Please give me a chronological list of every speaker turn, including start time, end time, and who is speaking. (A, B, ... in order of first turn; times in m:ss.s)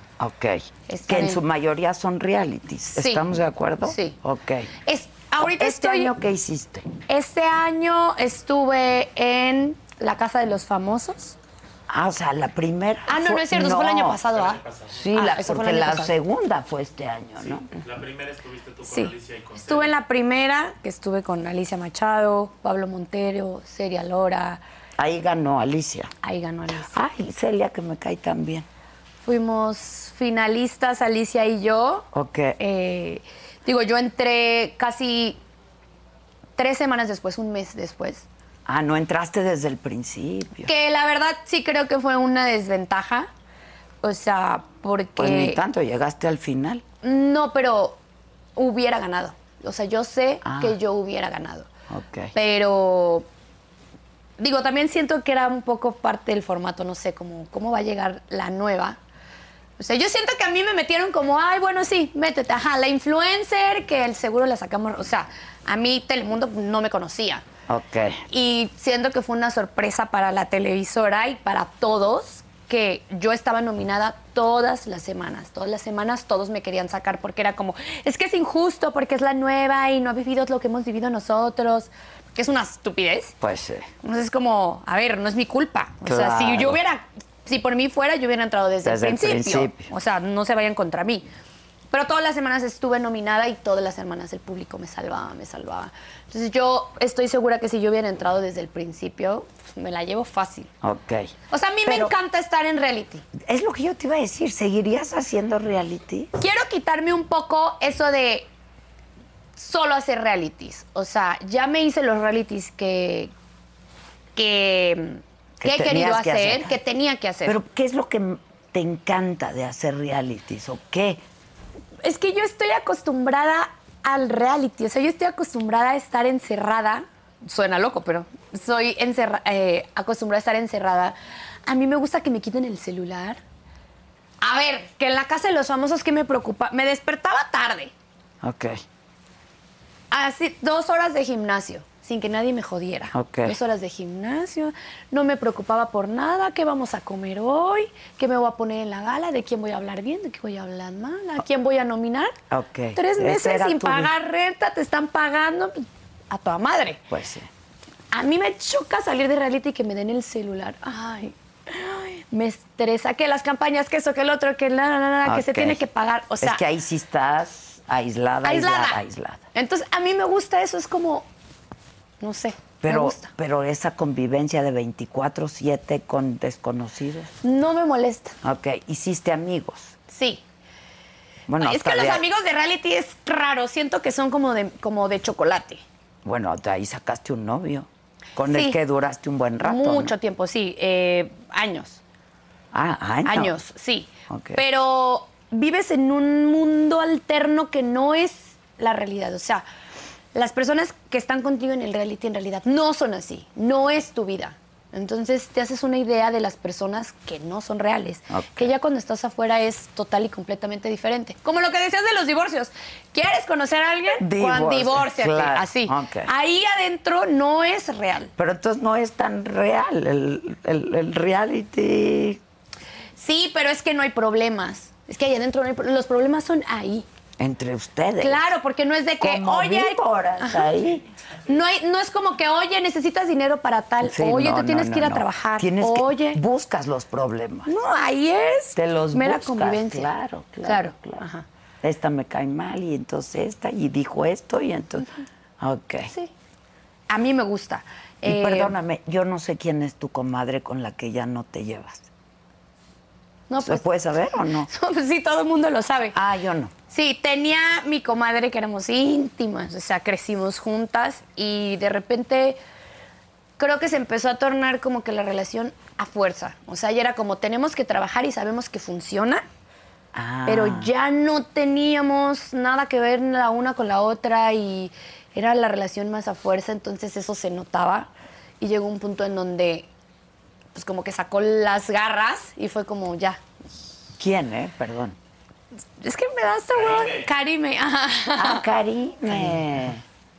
0:00.2-0:04.7 A
0:00.9-0:01.4 B
0:02.9-0:03.3 B
0:03.8-0:04.2 B
0:04.8-0:06.1 B
0:05.4-0:06.9 A
0:07.1-0:11.4 B
0:11.9-0:14.2 A
0:13.1-0:16.1 B
0:14.3-0:15.1 C
0:15.0-0:17.6 A
0:17.8-0:19.9 C
0:18.8-0:24.6 B
0:25.0-0:26.1 A
0:26.2-0:27.0 B
0:26.9-0:28.7 A
0:29.2-0:32.1 B
0:32.1-0:32.6 A
0:32.6-0:35.4 B
0:36.6-0:38.2 B
0:38.7-0:40.7 A
0:40.6-0:43.3 B
0:44.0-0:45.6 B
0:45.2-0:46.8 A
0:47.0-0:48.0 B
0:48.6-0:51.7 B
0:50.4-0:50.8 A
0:51.9-0:52.3 A
0:52.3-0:53.3 B
0:54.4-0:59.0 B
0:59.8-1:07.4 B
1:07.7-1:08.2 A
1:08.3-1:23.3 B
1:23.4-1:23.9 A
1:24.0-1:31.3 B
1:26.0-1:26.8 A
1:28.8-1:29.9 A
1:31.9-1:40.7 B
1:40.8-1:41.3 A
1:41.5-1:43.2 B
1:41.8-1:42.1 A
1:43.3-1:46.3 A
1:46.4-1:48.5 B
1:49.6-1:53.3 B
1:54.4-1:57.6 B
1:55.6-1:56.7 A
1:57.4-2:01.2 A
2:02.0-2:13.4 B
2:14.4-2:17.9 B
2:18.4-2:18.8 A
2:20.1-2:32.4 B
2:23.1-2:23.6 A
2:32.5-2:34.1 A
2:32.9-2:37.0 B
2:37.1-2:37.5 A
2:38.1-2:46.6 B
2:45.2-2:45.8 A
2:46.4-2:49.4 A
2:48.4-2:49.0 B
2:49.5-2:51.2 B
2:52.2-2:53.3 B
2:52.8-2:57.3 A
2:57.4-2:58.3 B
2:58.4-2:59.9 A
3:00.1-3:00.4 B
3:01.5-3:02.2 A
3:01.6-3:05.8 B
3:06.2-3:10.1 A
3:08.4-3:08.8 B
3:09.6-3:12.0 B
3:12.7-3:13.5 A
3:13.2-3:19.6 B
3:14.3-3:14.6 A
3:20.3-3:38.3 B
3:28.3-3:28.7 A
3:34.2-3:36.3 A
3:38.4-3:42.4 A
3:43.2-3:47.1 B
3:47.4-3:48.4 A
3:48.2-3:50.7 B
3:49.2-3:51.0 A
3:51.5-3:56.4 B
3:54.0-3:57.7 A
3:57.6-4:00.1 B
3:58.7-4:01.2 A
4:00.6-4:01.4 B
4:01.8-4:05.1 A
4:05.6-4:06.1 A
4:07.1-4:08.7 B
4:08.2-4:12.0 A
4:13.5-4:13.9 B
4:13.6-4:14.7 A
4:14.6-4:16.1 B
4:16.1-4:16.7 A
4:16.9-4:22.6 B
4:23.6-4:29.4 B
4:30.1-4:30.9 A
4:30.4-4:39.9 B
4:40.7-4:43.4 B
4:44.2-4:45.2 A
4:46.0-4:48.6 B
4:48.4-4:50.0 A